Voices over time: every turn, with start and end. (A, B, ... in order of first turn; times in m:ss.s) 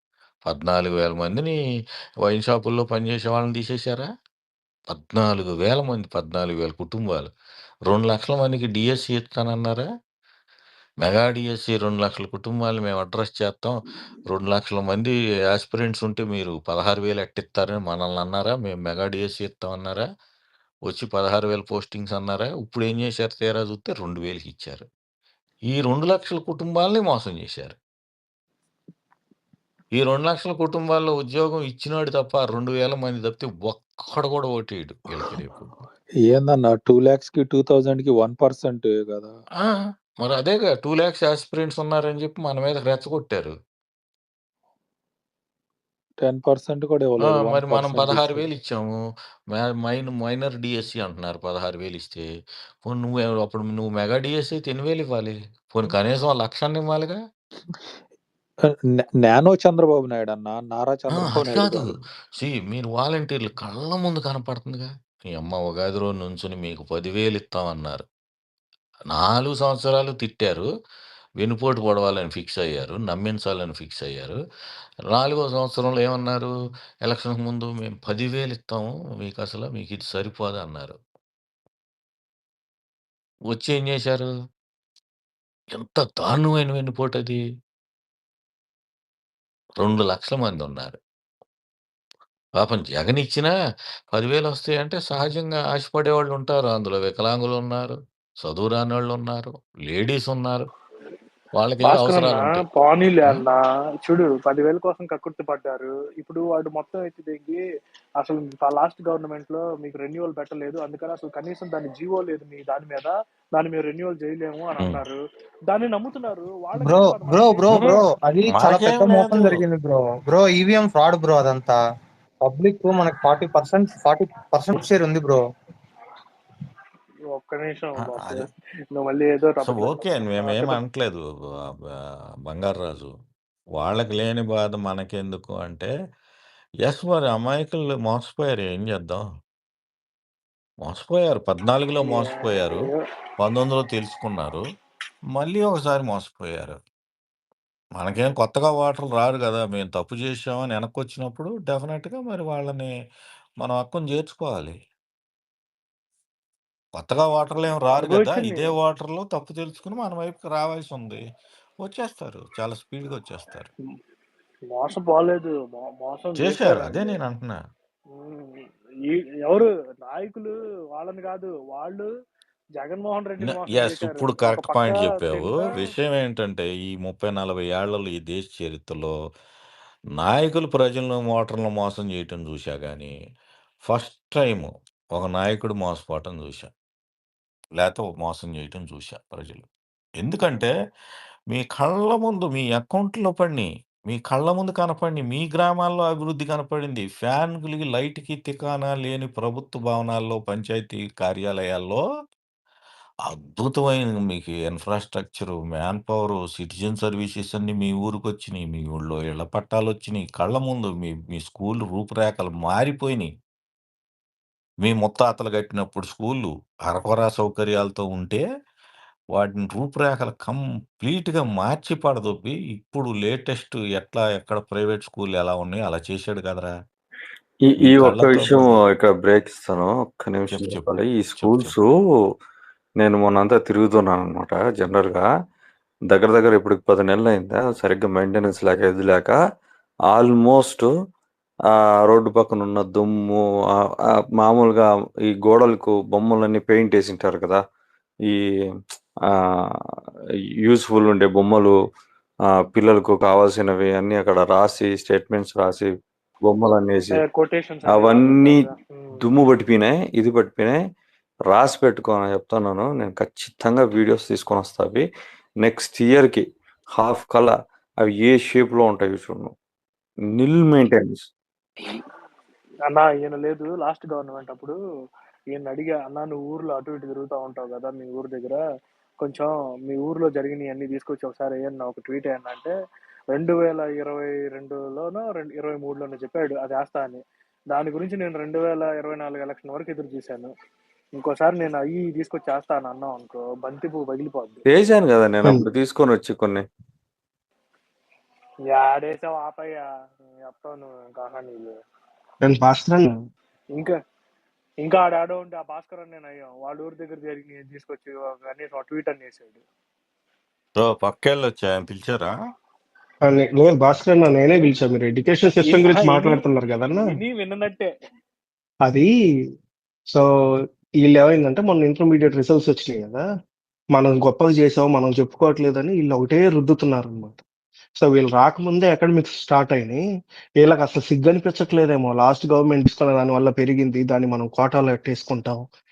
0:00.5-0:01.6 A
0:02.2-0:04.1 A
0:04.9-0:07.3 A
0:07.9-0:09.9 A
0:11.0-0:13.8 A
0:14.3-0:20.0 A
0:20.9-0:24.9 A
0:25.7-0:27.8 A
0:30.0-0:35.7 A
0:36.2-0:39.4 B
0:39.6-0:43.6 A
0:46.2-0:48.5 B
0:47.4-0:49.0 A
0:49.5-0:52.3 A
0:52.8-0:57.2 A
0:57.6-0:58.0 B
0:58.6-1:02.0 B
1:01.2-1:08.0 A
1:09.1-1:10.7 A
1:11.4-1:14.4 A
1:15.1-1:16.5 A
1:17.0-1:21.0 A
1:23.5-1:24.3 A
1:25.8-1:27.4 A
1:29.8-1:31.0 A
1:32.6-1:33.5 A
1:34.1-1:40.7 A
1:41.6-1:43.4 A
1:41.8-1:47.6 C
1:48.2-1:57.9 C
1:56.8-2:01.8 D
1:58.5-1:59.6 A
2:02.4-2:05.4 D
2:07.3-2:10.8 C
2:08.2-2:08.4 A
2:09.6-2:11.2 A
2:12.5-2:13.1 A
2:13.8-2:15.9 A
2:16.8-2:19.2 A
2:20.8-2:22.9 A
2:22.0-2:23.0 C
2:23.4-2:24.6 A
2:25.3-2:26.8 A
2:28.0-2:32.9 A
2:33.6-2:34.8 A
2:37.0-2:41.2 A
2:37.9-2:38.7 C
2:41.8-2:43.7 A
2:44.7-2:47.1 C
2:46.4-2:47.6 A
2:48.2-2:52.1 C
2:52.8-2:55.7 C
2:53.4-2:59.1 A
3:00.2-3:03.1 A
3:03.9-3:06.7 A
3:07.8-3:09.7 A
3:10.2-3:10.7 A
3:11.5-3:22.0 A
3:23.3-3:33.3 A
3:34.8-3:38.4 A
3:39.3-3:46.7 A
3:47.7-3:51.9 E
3:47.8-3:48.7 A
3:50.5-3:51.8 A
3:53.0-3:55.3 E
3:56.1-3:59.4 E
4:00.1-4:00.9 E
4:01.7-4:03.4 E
4:04.4-4:07.6 E
4:10.6-4:11.7 E
4:12.5-4:15.9 E
4:16.4-4:17.2 E
4:17.2-4:19.2 C
4:17.9-4:20.8 E
4:21.5-4:25.0 E
4:25.6-4:29.5 E
4:30.3-4:31.3 E
4:32.9-4:34.8 C
4:35.5-4:38.6 C
4:39.2-4:42.7 C
4:43.3-4:47.2 C
4:47.7-4:50.5 C
4:51.2-4:54.6 C
4:54.7-4:56.6 E
4:58.7-4:59.8 C
5:00.4-5:01.8 C
5:02.4-5:03.2 F
5:04.8-5:09.6 C
5:10.8-5:12.3 A
5:13.2-5:17.1 F
5:15.7-5:16.4 C
5:17.0-5:17.9 C
5:18.8-5:19.1 F
5:21.0-5:23.2 F
5:24.0-5:27.4 F
5:28.0-5:30.0 F
5:30.6-5:35.6 F